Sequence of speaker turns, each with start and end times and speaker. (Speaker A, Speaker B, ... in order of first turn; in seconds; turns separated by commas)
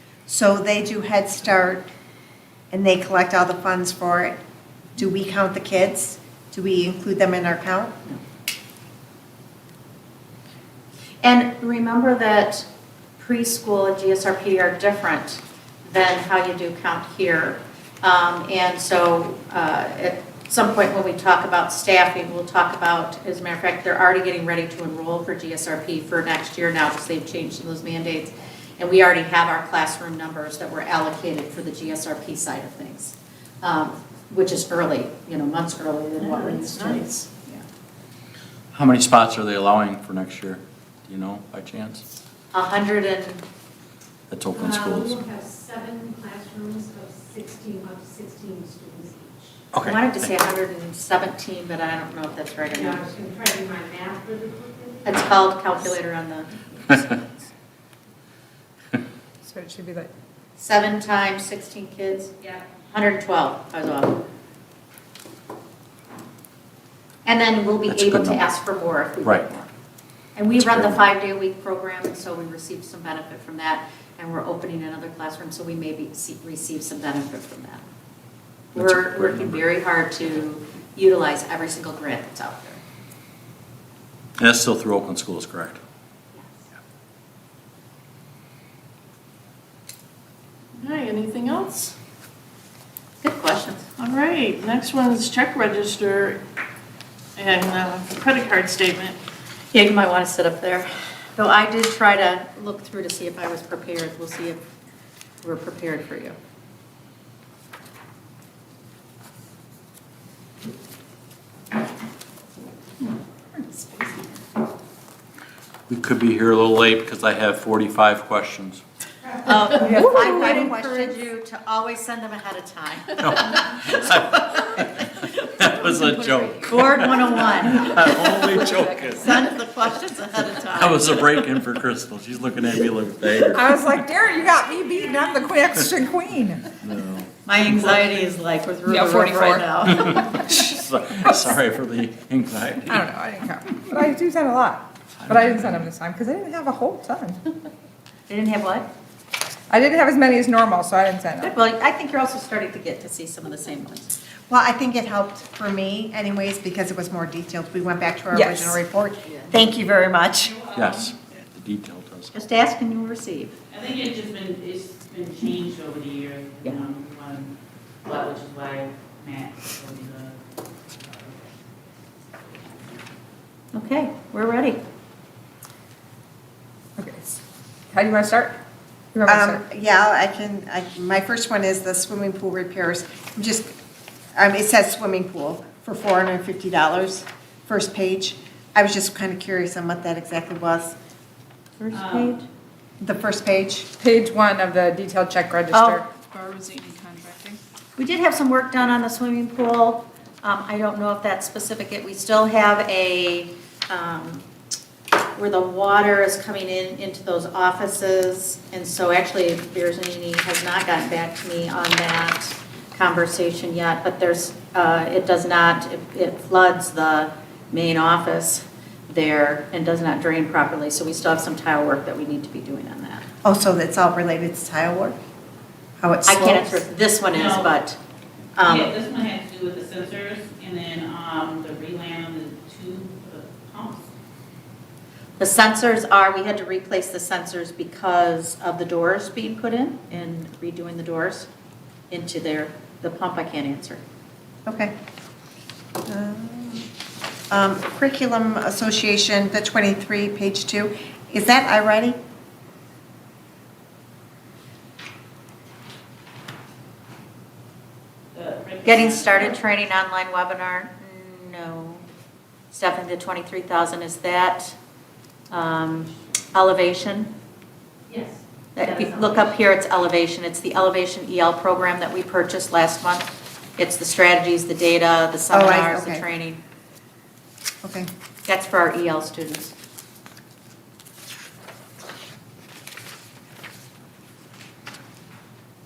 Speaker A: 0.3-1.9, Speaker A: 2.7-4.4, Speaker A: 5.0-7.9, Speaker B: 11.2-12.7, Speaker B: 13.2-37.6, Speaker C: 36.2-37.0, Speaker D: 38.7-42.0, Speaker B: 42.5-43.4, Speaker D: 44.3-45.2, Speaker E: 44.6-49.5, Speaker D: 49.7-50.3, Speaker B: 49.8-53.1, Speaker E: 52.7-55.2, Speaker B: 55.0-57.3, Speaker F: 59.4-60.1, Speaker B: 60.6-64.2, Speaker B: 67.2-69.7, Speaker D: 67.9-68.4, Speaker B: 70.3-77.8, Speaker D: 70.6-71.0, Speaker B: 78.7-82.8, Speaker D: 78.8-79.6, Speaker D: 84.4-85.8, Speaker B: 86.3-86.6, Speaker C: 90.8-91.9, Speaker B: 93.2-93.9, Speaker C: 94.0-96.4, Speaker C: 97.4-99.2, Speaker B: 99.7-104.6, Speaker B: 105.4-106.3, Speaker F: 113.5-114.2, Speaker D: 115.9-118.8, Speaker B: 119.4-124.6, Speaker F: 119.8-120.8, Speaker A: 120.4-121.2, Speaker D: 123.2-129.3, Speaker F: 125.8-127.1, Speaker B: 126.6-131.2, Speaker F: 128.5-128.9, Speaker D: 130.7-133.9, Speaker F: 133.5-136.7, Speaker D: 136.7-138.0, Speaker B: 137.4-140.4, Speaker F: 138.8-139.7, Speaker D: 139.8-143.0, Speaker F: 142.9-147.4, Speaker D: 145.2-145.8, Speaker B: 148.3-148.9, Speaker F: 149.7-151.6, Speaker B: 151.4-154.1, Speaker A: 154.5-160.5, Speaker F: 158.3-158.8, Speaker B: 159.2-159.6, Speaker G: 160.6-161.1, Speaker D: 160.7-162.3, Speaker B: 162.3-163.6, Speaker G: 163.7-167.5, Speaker G: 168.0-170.4, Speaker G: 170.9-171.6, Speaker B: 173.7-174.8, Speaker F: 177.0-177.4, Speaker F: 177.9-178.6, Speaker F: 179.1-179.6, Speaker A: 179.2-183.7, Speaker A: 184.3-190.9, Speaker B: 191.8-192.4, Speaker G: 191.9-192.3, Speaker A: 193.0-193.9, Speaker F: 194.0-196.1, Speaker B: 195.7-196.0, Speaker C: 196.2-197.6, Speaker B: 198.0-204.4, Speaker B: 205.3-223.2, Speaker A: 223.4-225.2, Speaker A: 226.0-226.8, Speaker B: 226.3-228.0, Speaker G: 227.3-227.7, Speaker B: 228.6-228.9, Speaker G: 228.7-234.1, Speaker B: 235.4-241.5, Speaker B: 242.1-244.0, Speaker A: 244.7-244.9, Speaker A: 246.1-246.9, Speaker A: 247.5-252.2, Speaker G: 258.3-259.6, Speaker B: 258.8-262.1, Speaker B: 262.7-264.8, Speaker B: 265.5-267.3, Speaker B: 268.8-276.6, Speaker G: 268.8-269.3, Speaker A: 275.5-276.2, Speaker B: 278.4-279.7